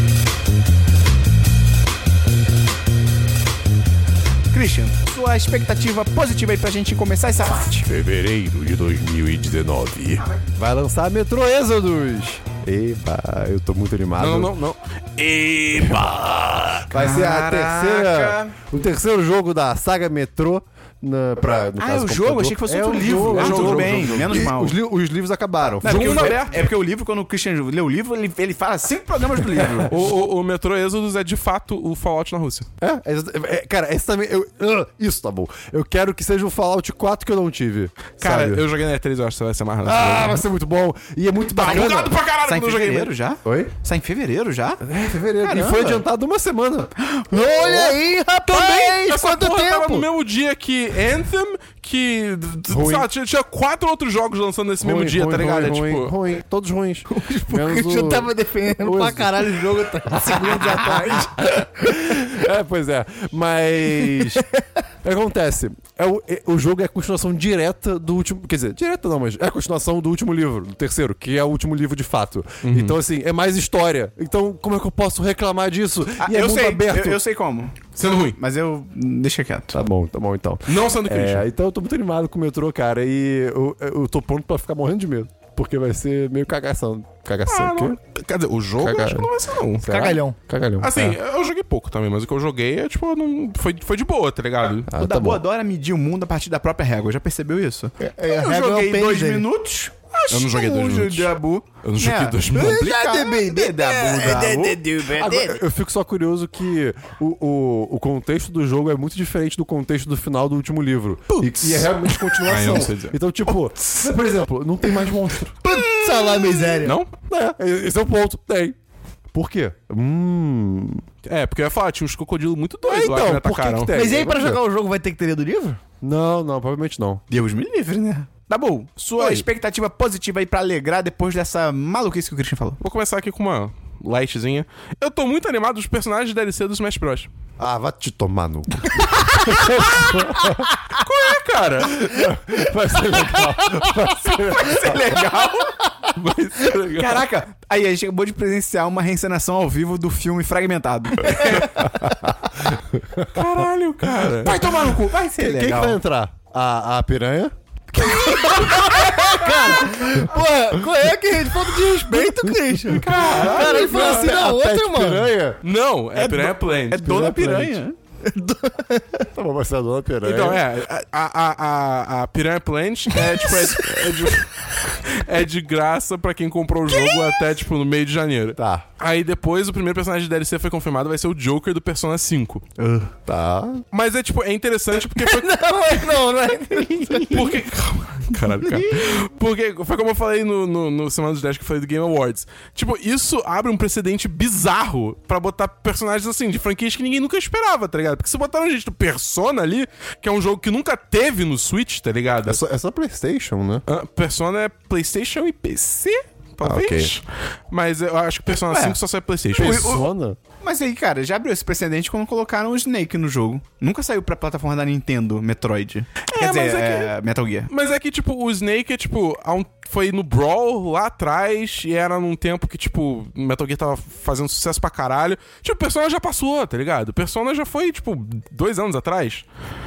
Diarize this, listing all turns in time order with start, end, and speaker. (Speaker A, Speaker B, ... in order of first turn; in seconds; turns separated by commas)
Speaker A: 4.5-7.8, Speaker B: 7.7-14.5, Speaker C: 14.2-16.1, Speaker B: 15.7-26.4, Speaker A: 16.9-18.5, Speaker A: 21.8-24.8, Speaker C: 23.0-24.4, Speaker C: 25.8-26.6, Speaker A: 25.8-29.9, Speaker B: 29.4-29.8, Speaker C: 29.9-32.7, Speaker B: 32.8-38.6, Speaker C: 38.2-40.4, Speaker B: 39.8-42.1, Speaker C: 41.5-43.1, Speaker A: 41.6-44.8, Speaker B: 43.4-43.7, Speaker B: 44.8-46.9, Speaker A: 45.4-46.0, Speaker A: 47.0-47.8, Speaker D: 47.3-50.0, Speaker B: 47.6-47.9, Speaker C: 48.5-56.1, Speaker B: 52.7-53.1, Speaker B: 54.8-64.4, Speaker D: 57.1-62.2, Speaker B: 65.0-77.2, Speaker C: 72.6-73.0, Speaker A: 76.2-79.8, Speaker C: 78.0-78.4, Speaker B: 79.7-88.0, Speaker C: 80.7-81.4, Speaker C: 87.5-90.1, Speaker B: 88.8-91.2, Speaker D: 89.8-90.4, Speaker C: 90.8-94.9, Speaker B: 94.9-95.4, Speaker A: 95.0-104.8, Speaker D: 98.0-99.5, Speaker C: 100.3-103.0, Speaker D: 102.5-105.6, Speaker B: 105.1-115.5, Speaker A: 111.3-112.8, Speaker C: 112.4-113.1, Speaker A: 113.5-114.0, Speaker D: 115.6-117.0, Speaker C: 116.3-117.1, Speaker B: 117.3-118.8, Speaker B: 119.3-121.0, Speaker C: 121.2-123.9, Speaker B: 122.8-124.6, Speaker D: 123.9-125.8, Speaker B: 126.0-127.2, Speaker A: 127.3-132.8, Speaker C: 129.2-129.4, Speaker C: 132.8-137.3, Speaker B: 137.6-140.7, Speaker C: 139.5-140.1, Speaker C: 140.9-142.1, Speaker B: 141.8-145.2, Speaker A: 144.2-145.8, Speaker C: 146.1-147.2, Speaker A: 146.9-151.9, Speaker C: 151.3-151.9, Speaker B: 151.8-153.5, Speaker C: 153.3-154.7, Speaker B: 154.2-160.3, Speaker A: 154.4-156.0, Speaker D: 157.9-165.3, Speaker B: 161.8-165.6, Speaker A: 163.0-164.2, Speaker C: 163.1-164.2, Speaker C: 165.6-167.3, Speaker A: 166.2-167.9, Speaker B: 167.0-167.8, Speaker D: 168.2-169.3, Speaker B: 169.3-170.6, Speaker C: 170.2-182.6, Speaker D: 176.9-177.2, Speaker B: 178.6-178.8, Speaker A: 182.8-183.1, Speaker B: 183.2-183.8, Speaker C: 183.9-185.6, Speaker D: 185.2-187.5, Speaker C: 187.1-202.6, Speaker B: 202.4-203.8, Speaker C: 203.9-209.9, Speaker B: 206.6-207.1, Speaker A: 208.5-209.0, Speaker A: 209.6-210.0, Speaker B: 209.6-210.4, Speaker A: 210.6-217.7, Speaker C: 216.3-217.1, Speaker C: 217.7-229.4